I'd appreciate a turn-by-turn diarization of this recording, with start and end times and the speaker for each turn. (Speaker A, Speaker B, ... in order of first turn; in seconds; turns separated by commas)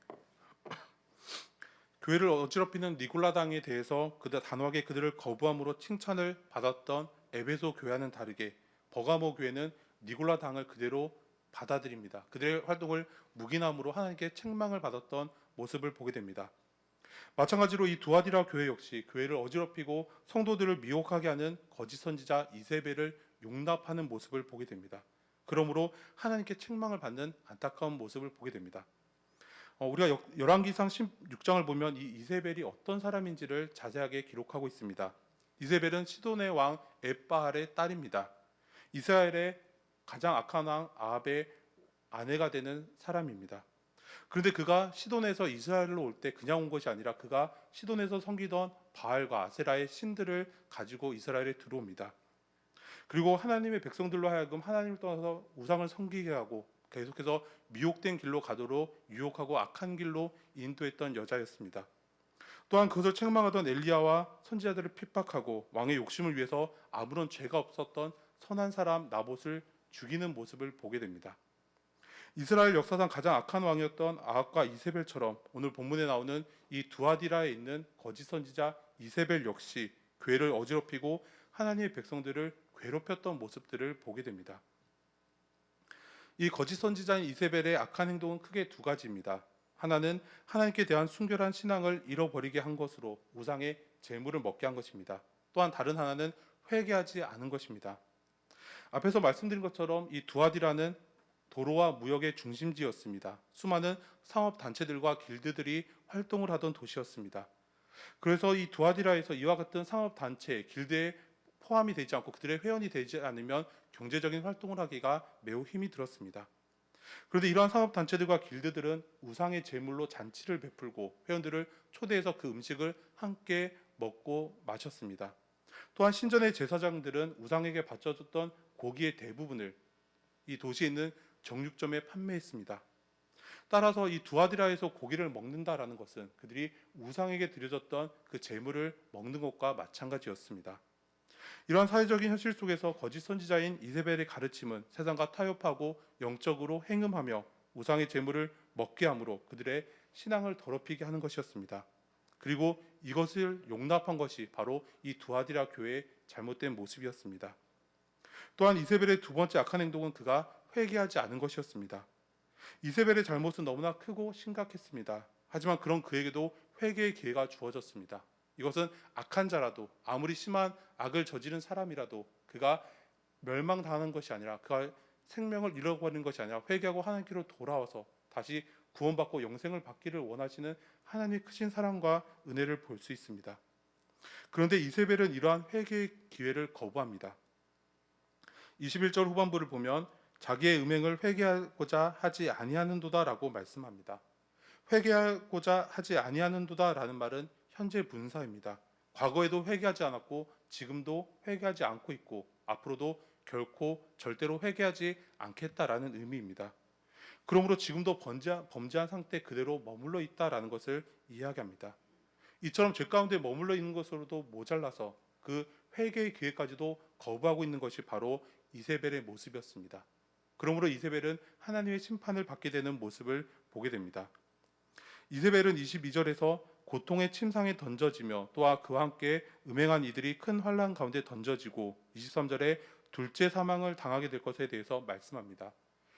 Speaker A: 2.0-16.5, Speaker A: 17.4-28.9, Speaker A: 29.8-38.3, Speaker A: 38.9-41.6, Speaker A: 42.1-43.7, Speaker A: 44.3-52.1, Speaker A: 53.1-61.9, Speaker A: 62.7-71.4, Speaker A: 72.3-84.6, Speaker A: 86.4-98.0, Speaker A: 98.9-101.0, Speaker A: 101.5-107.5, Speaker A: 108.2-116.5, Speaker A: 117.3-125.4, Speaker A: 125.9-129.8, Speaker A: 130.5-132.8, Speaker A: 133.7-140.8, Speaker A: 141.7-151.9, Speaker A: 152.4-157.6, Speaker A: 158.6-162.1, Speaker A: 162.8-172.9, Speaker A: 173.4-183.6, Speaker A: 184.5-187.4, Speaker A: 188.8-194.2, Speaker A: 194.9-206.7, Speaker A: 207.5-212.0, Speaker A: 212.6-220.1, Speaker A: 220.6-224.3, Speaker A: 225.3-235.8